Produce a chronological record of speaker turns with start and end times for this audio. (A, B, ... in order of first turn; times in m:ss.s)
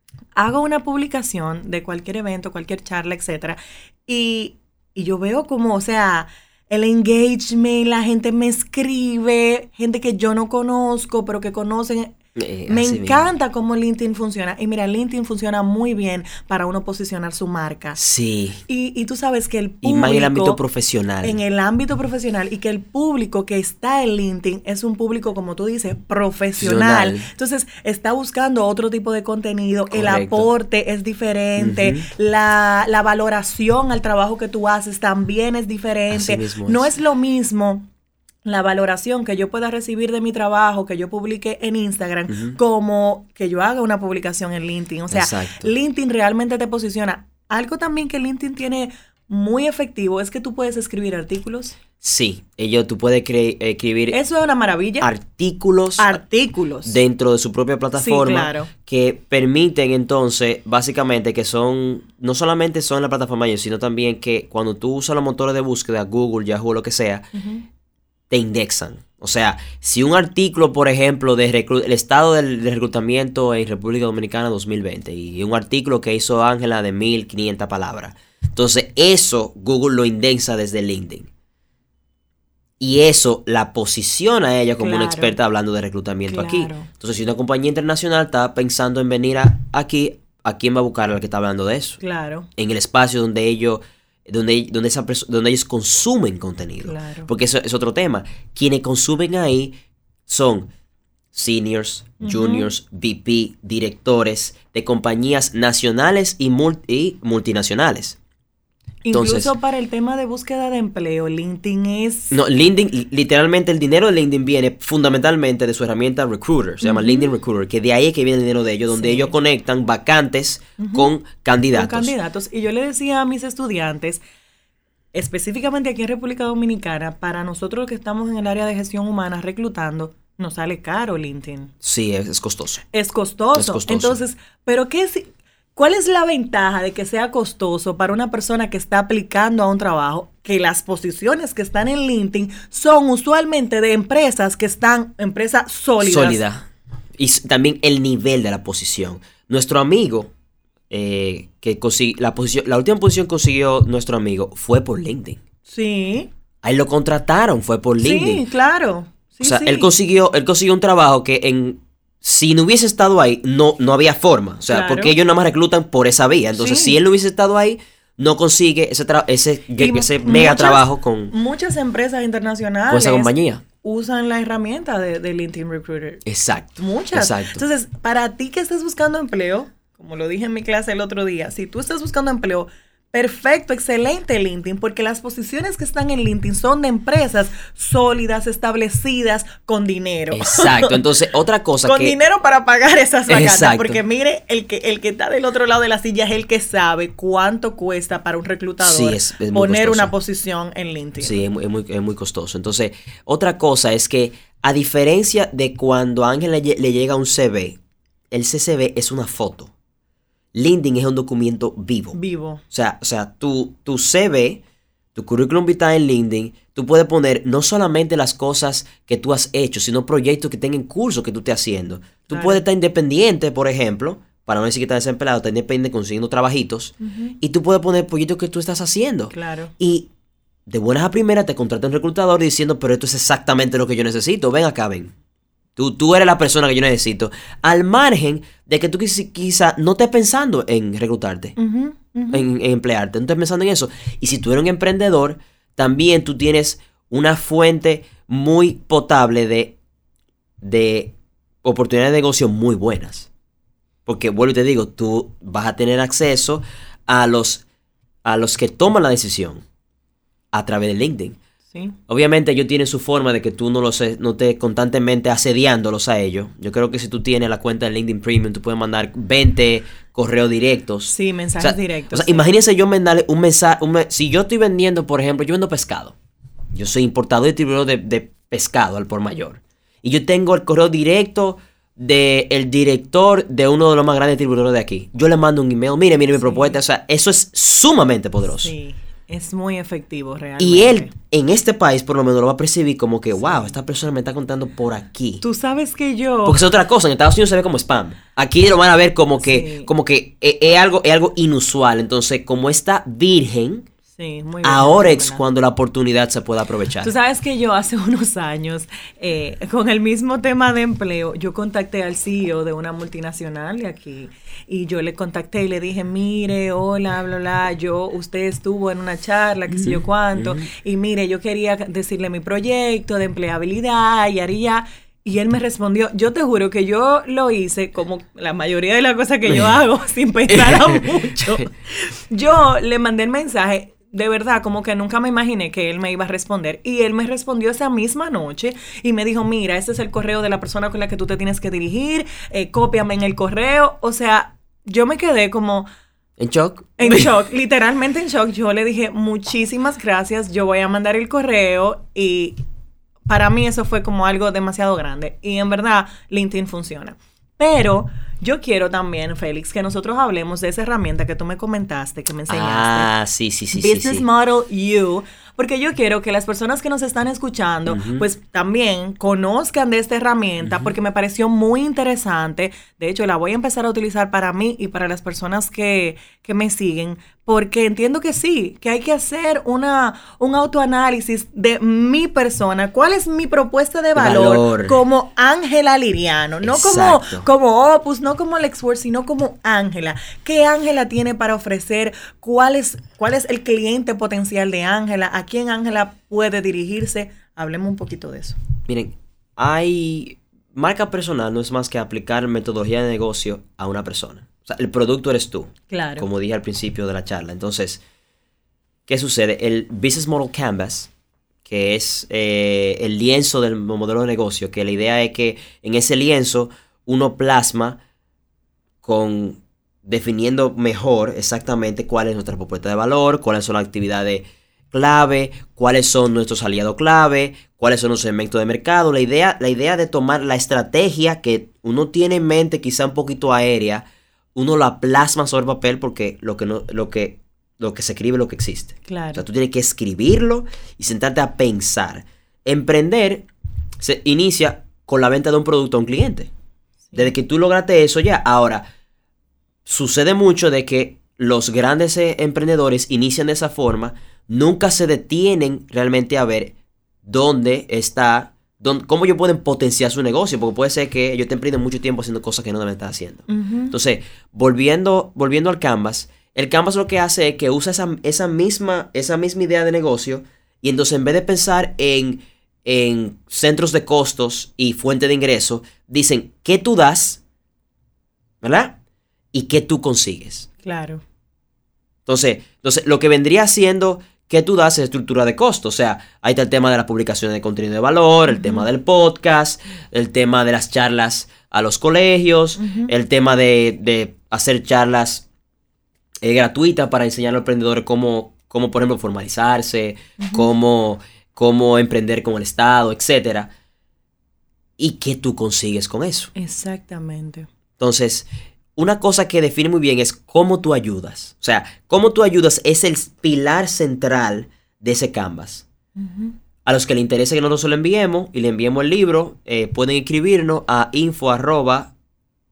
0:00.4-0:12.1 A
0:12.4-0:13.2 B
0:12.7-0:18.0 A
0:18.0-0:18.6 B
0:18.7-0:20.6 A
0:19.8-0:21.4 B
0:21.2-0:37.9 A
0:26.6-0:27.3 B
0:29.9-0:30.5 B
0:31.6-0:32.0 B
0:36.1-0:36.9 B
0:38.4-0:51.8 A
0:42.3-0:42.6 B
0:45.1-0:45.7 B
0:52.0-0:54.2 B
0:54.1-0:55.1 A
0:55.0-0:56.2 B
0:56.0-0:57.0 A
0:56.8-1:07.3 B
0:57.9-0:58.7 A
1:07.3-1:07.6 A
1:08.3-1:21.3 B
1:22.8-1:32.0 B
1:24.8-1:25.4 A
1:26.3-1:26.9 A
1:32.0-1:32.5 A
1:32.6-1:39.7 B
1:36.8-1:37.3 A
1:40.3-1:40.7 B
1:41.3-1:48.2 B
1:42.2-1:42.7 A
1:49.0-1:52.4 A
1:49.1-1:49.5 B
1:52.3-2:02.1 B
1:56.8-1:57.3 A
1:58.9-1:59.3 A
2:00.8-2:01.1 A
2:01.7-2:04.2 A
2:05.1-2:11.7 A
2:11.8-2:12.8 B
2:12.9-2:26.4 A
2:13.5-2:14.2 B
2:26.0-2:30.3 B
2:30.9-2:35.4 B
2:35.7-2:36.3 A
2:36.6-2:38.4 B
2:38.0-2:39.9 A
2:39.4-2:51.3 B
2:44.7-2:45.1 A
2:46.5-2:47.0 A
2:49.8-2:56.2 A
2:52.9-2:53.6 B
2:56.2-2:57.6 B
2:56.8-3:11.0 A
3:10.3-3:12.1 B
3:11.8-3:21.4 A
3:13.3-3:14.0 B
3:18.8-3:20.1 B
3:21.2-3:27.8 B
3:28.3-3:29.7 B
3:30.5-3:32.2 B
3:32.1-3:32.6 A
3:32.7-3:34.6 B
3:35.1-3:50.1 B
3:42.3-3:42.6 A
3:47.0-3:47.3 A
3:49.3-3:49.7 A
3:50.7-3:55.1 B
3:55.8-4:01.5 B
4:01.6-4:02.4 A
4:02.3-4:09.8 B
4:10.6-4:13.3 B
4:14.0-4:17.6 B
4:18.2-4:19.6 B
4:20.5-4:21.4 B
4:21.7-4:22.0 A
4:22.1-4:36.1 B
4:31.1-4:32.5 A
4:36.7-4:48.7 B
4:46.4-4:46.8 A
4:48.5-4:51.1 A
4:50.6-4:55.4 B
4:53.4-4:53.7 A
4:55.4-4:56.6 A
4:56.4-5:03.8 B
4:59.4-4:59.9 A
5:04.1-5:05.4 A
5:04.6-5:07.1 B
5:07.0-5:45.9 A
5:19.7-5:20.7 B
5:30.5-5:31.6 B
5:46.4-5:47.3 B
5:47.0-5:52.6 A
5:53.3-6:03.1 A
6:02.5-6:04.2 B
6:03.7-6:38.6 A
6:07.9-6:08.3 B
6:10.6-6:10.9 B
6:24.1-6:25.0 B
6:26.6-6:27.5 B
6:38.9-6:48.0 B
6:45.9-6:46.3 A
6:49.1-6:51.1 B
6:51.6-6:58.0 B
6:59.0-7:23.5 B
7:19.0-7:19.4 A
7:24.0-7:26.5 B
7:27.1-7:28.9 B
7:29.8-7:57.4 B
7:43.5-7:43.9 A
7:58.6-7:59.0 B
7:59.5-8:00.7 B
8:00.8-8:01.2 A
8:02.2-8:15.4 B
8:08.5-8:08.9 A
8:12.8-8:13.1 A
8:16.4-8:23.7 B
8:20.4-8:20.7 A
8:25.0-8:26.5 B
8:26.5-8:27.7 A
8:28.0-8:35.8 B
8:36.2-8:36.6 A
8:36.8-8:42.1 B